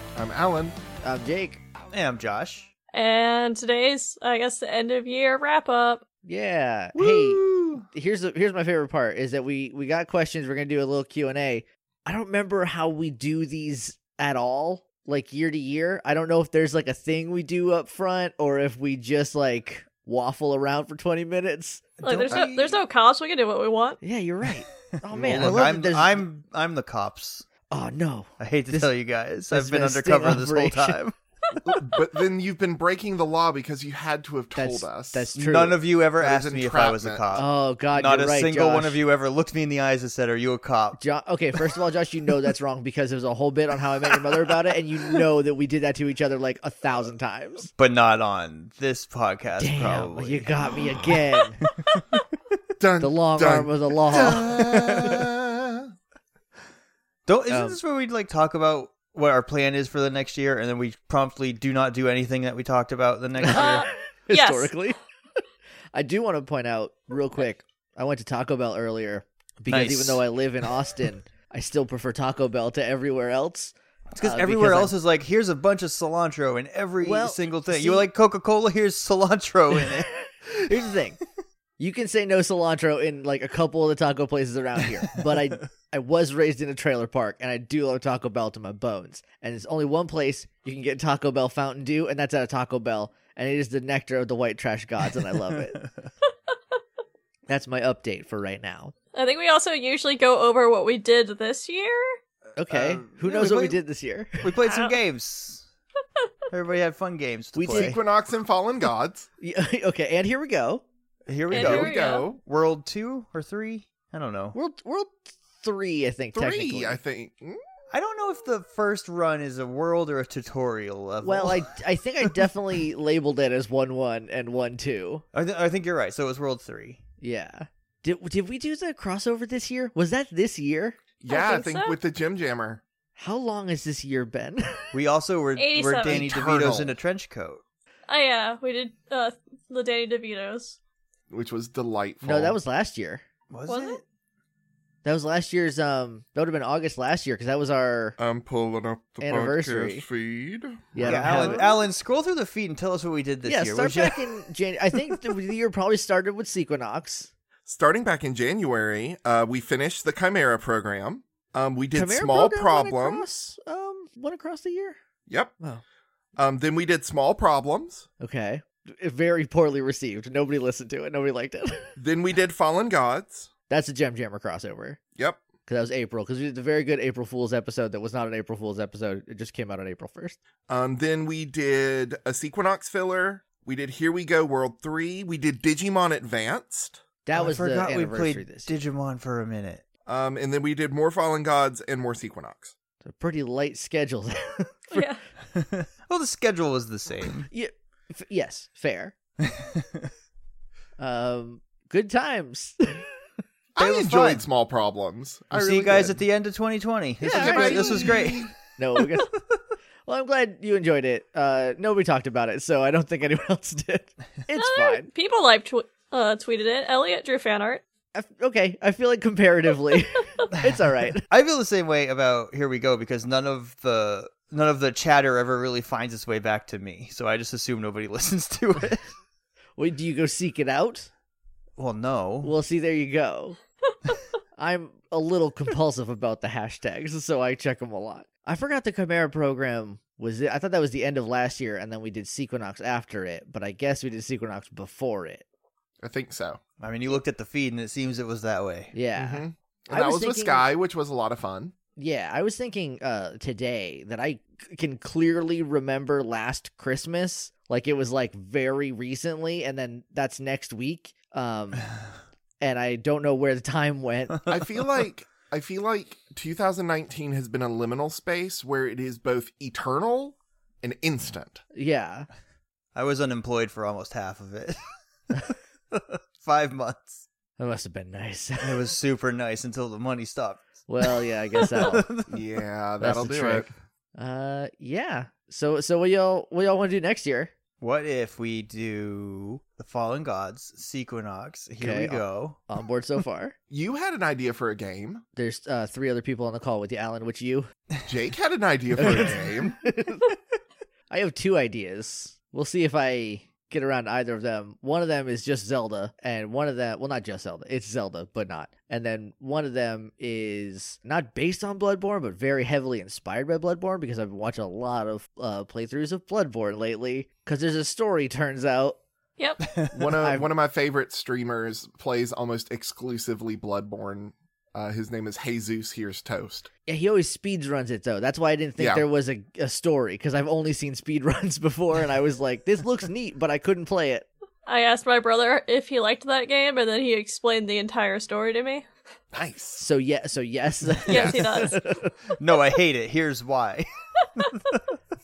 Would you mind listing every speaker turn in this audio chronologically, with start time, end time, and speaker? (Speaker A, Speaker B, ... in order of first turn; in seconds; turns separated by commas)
Speaker A: 0.1-0.8, Speaker B: 1.0-1.6, Speaker C: 1.9-2.7, Speaker D: 2.9-6.0, Speaker B: 6.2-21.8, Speaker A: 6.9-7.8, Speaker C: 22.0-22.6, Speaker D: 22.0-24.0, Speaker A: 22.3-22.8, Speaker B: 24.0-26.2, Speaker A: 25.1-25.6, Speaker C: 25.1-27.5, Speaker B: 27.7-28.9, Speaker C: 28.4-31.1, Speaker B: 29.5-31.0, Speaker D: 31.5-32.0, Speaker A: 31.6-35.3, Speaker B: 34.5-35.8, Speaker C: 35.4-41.0, Speaker A: 36.2-37.3, Speaker B: 37.3-39.0, Speaker B: 41.0-47.7, Speaker C: 47.7-52.2, Speaker B: 49.6-51.6, Speaker A: 52.8-55.9, Speaker B: 53.0-54.5, Speaker C: 54.1-55.2, Speaker C: 57.2-63.9, Speaker B: 57.5-57.8, Speaker B: 63.4-65.0, Speaker D: 63.5-64.7, Speaker B: 65.9-74.9, Speaker C: 69.7-71.1, Speaker C: 74.1-80.1, Speaker B: 77.0-78.1, Speaker B: 80.6-81.2, Speaker B: 81.8-95.8, Speaker C: 85.1-85.6, Speaker C: 95.3-96.1, Speaker B: 97.5-98.9, Speaker D: 99.1-102.2, Speaker B: 102.6-104.4, Speaker C: 102.7-103.8, Speaker C: 104.4-105.7, Speaker D: 104.6-105.0, Speaker C: 106.5-107.9, Speaker B: 107.5-108.0, Speaker A: 107.7-109.3, Speaker B: 109.4-110.8, Speaker C: 111.3-114.5, Speaker D: 111.5-112.2, Speaker A: 111.5-112.4, Speaker B: 114.5-117.0, Speaker A: 116.3-117.6, Speaker C: 117.9-121.7, Speaker B: 121.2-125.2, Speaker C: 125.3-127.0, Speaker B: 127.2-131.0, Speaker A: 131.2-132.8, Speaker D: 131.3-131.9, Speaker B: 133.2-134.9, Speaker C: 134.9-137.6, Speaker D: 135.6-136.2, Speaker A: 136.0-136.9, Speaker D: 138.1-140.8, Speaker A: 141.3-142.6, Speaker B: 142.2-143.2, Speaker C: 143.5-144.0, Speaker D: 143.7-144.0, Speaker B: 145.0-148.2, Speaker A: 148.2-151.1, Speaker B: 149.2-150.0, Speaker B: 150.9-151.6, Speaker C: 151.0-154.2, Speaker D: 151.1-151.8, Speaker B: 153.4-157.3, Speaker A: 157.7-163.3, Speaker B: 161.9-165.0, Speaker A: 165.3-165.5, Speaker A: 166.3-168.1, Speaker B: 168.2-171.9, Speaker A: 172.0-173.5, Speaker B: 173.7-175.0, Speaker A: 175.2-175.4, Speaker B: 175.7-180.4, Speaker A: 180.7-187.0, Speaker B: 187.2-188.7, Speaker C: 187.3-189.8, Speaker A: 190.1-192.7, Speaker B: 193.0-195.0, Speaker D: 194.9-195.2, Speaker C: 195.5-197.5, Speaker B: 197.5-199.1, Speaker C: 199.5-200.0, Speaker B: 201.0-203.0, Speaker A: 203.7-206.2, Speaker C: 203.8-204.4, Speaker C: 205.5-209.0, Speaker B: 207.2-208.2, Speaker A: 207.3-208.5, Speaker B: 208.8-209.3, Speaker B: 210.1-215.1, Speaker D: 214.6-217.8, Speaker B: 218.1-221.2, Speaker C: 221.3-229.1, Speaker B: 229.8-231.1, Speaker C: 231.8-232.5, Speaker B: 232.4-233.6, Speaker B: 234.6-245.4, Speaker A: 246.0-246.6, Speaker C: 246.8-248.9, Speaker B: 248.9-250.7, Speaker A: 249.2-251.7, Speaker B: 252.0-261.9, Speaker B: 262.6-264.4, Speaker A: 264.5-271.6, Speaker B: 271.7-272.3, Speaker C: 272.9-274.8, Speaker C: 275.3-277.2, Speaker B: 277.6-278.9, Speaker C: 278.6-282.4, Speaker B: 280.9-282.1, Speaker A: 282.3-283.7, Speaker B: 283.0-287.5, Speaker C: 287.8-292.6, Speaker B: 291.8-293.5, Speaker A: 293.7-295.2, Speaker B: 295.4-297.7, Speaker A: 298.0-299.8, Speaker B: 299.0-300.2, Speaker B: 301.1-319.0, Speaker A: 319.9-326.7, Speaker B: 326.9-334.3, Speaker A: 328.8-329.0, Speaker D: 334.6-338.9, Speaker A: 339.3-339.8, Speaker B: 339.8-342.1, Speaker D: 341.1-341.8, Speaker A: 341.1-341.5, Speaker C: 342.4-344.8